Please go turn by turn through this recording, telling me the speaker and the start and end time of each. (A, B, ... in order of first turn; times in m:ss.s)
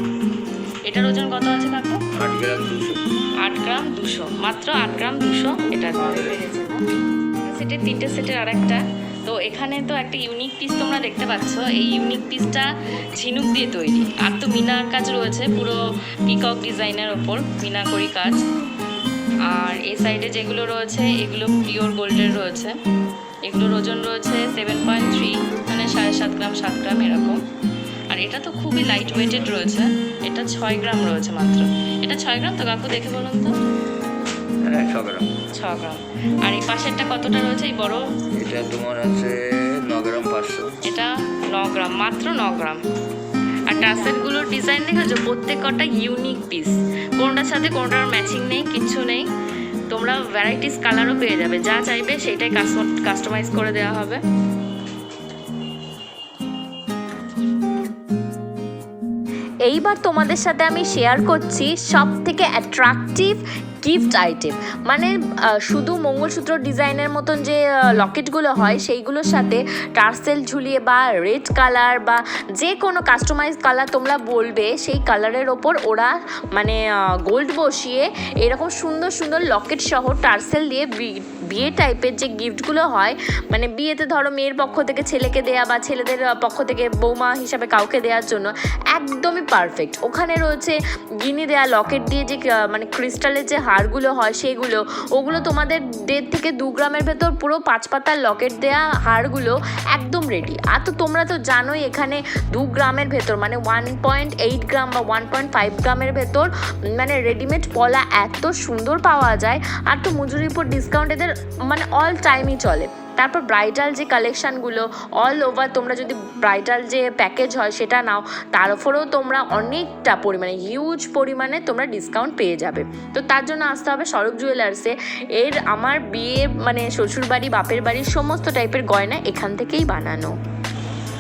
0:00.9-0:02.0 A
0:02.2-0:03.0 B
0:03.4-0:06.8 A
0:07.4-0:18.4 A
0:19.5-0:22.8 A
0:23.4-0:27.4 A
0:28.1-0:33.6 A
0:34.6-0:35.3 B
0:35.5-0:38.0 A
0:38.3-0:40.8 B
0:40.8-0:42.8 A
0:43.6-0:49.3 A
0:49.9-0:54.2 A
0:59.7-2:10.3 A